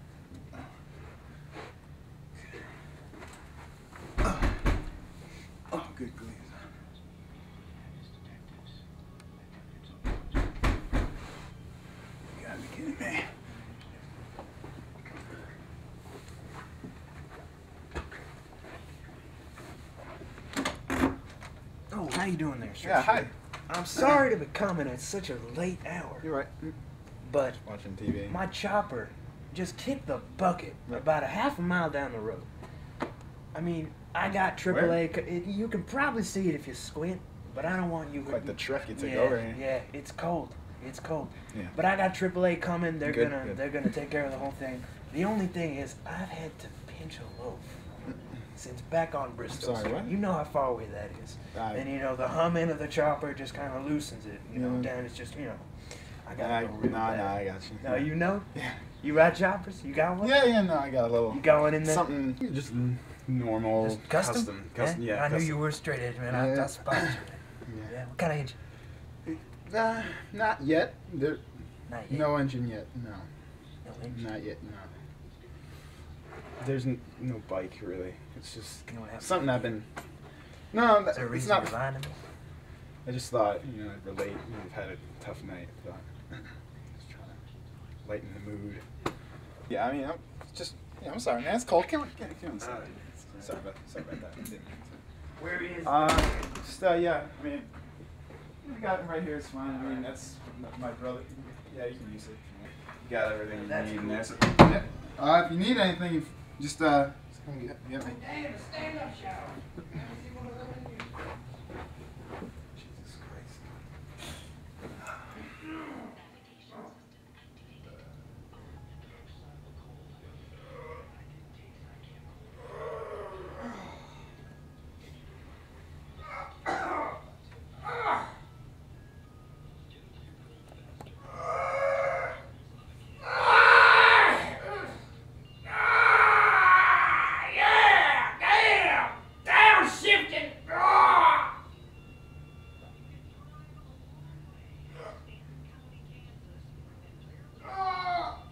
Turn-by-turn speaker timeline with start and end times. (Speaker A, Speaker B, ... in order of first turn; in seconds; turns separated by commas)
Speaker A: 4.2-4.5, Speaker A: 5.7-6.6, Speaker A: 12.3-13.3, Speaker B: 21.9-26.3, Speaker A: 22.8-23.3, Speaker A: 26.2-26.7, Speaker B: 27.2-27.6, Speaker A: 27.6-28.4, Speaker B: 28.3-32.5, Speaker B: 33.5-47.8, Speaker A: 34.6-35.0, Speaker A: 38.2-39.6, Speaker A: 43.0-43.6, Speaker B: 48.5-55.7, Speaker A: 49.5-50.1, Speaker A: 51.5-51.9, Speaker A: 54.5-54.9, Speaker B: 56.2-58.5, Speaker A: 56.4-58.8, Speaker B: 59.0-60.5, Speaker A: 60.2-65.6, Speaker B: 61.3-62.1, Speaker B: 63.8-68.5, Speaker A: 66.3-67.1, Speaker A: 69.2-71.4, Speaker B: 71.9-72.3, Speaker A: 72.1-73.3, Speaker B: 73.8-74.3, Speaker A: 74.1-74.9, Speaker A: 76.6-79.9, Speaker B: 78.9-79.7, Speaker A: 80.7-81.8, Speaker B: 81.0-82.2, Speaker A: 83.0-87.4, Speaker A: 88.0-88.8, Speaker A: 89.7-95.0, Speaker B: 92.6-93.5, Speaker B: 95.4-96.5, Speaker A: 95.8-97.7, Speaker A: 98.6-108.2, Speaker B: 103.5-104.6, Speaker B: 108.2-109.5, Speaker B: 110.5-110.8, Speaker A: 112.8-113.6, Speaker C: 137.4-140.7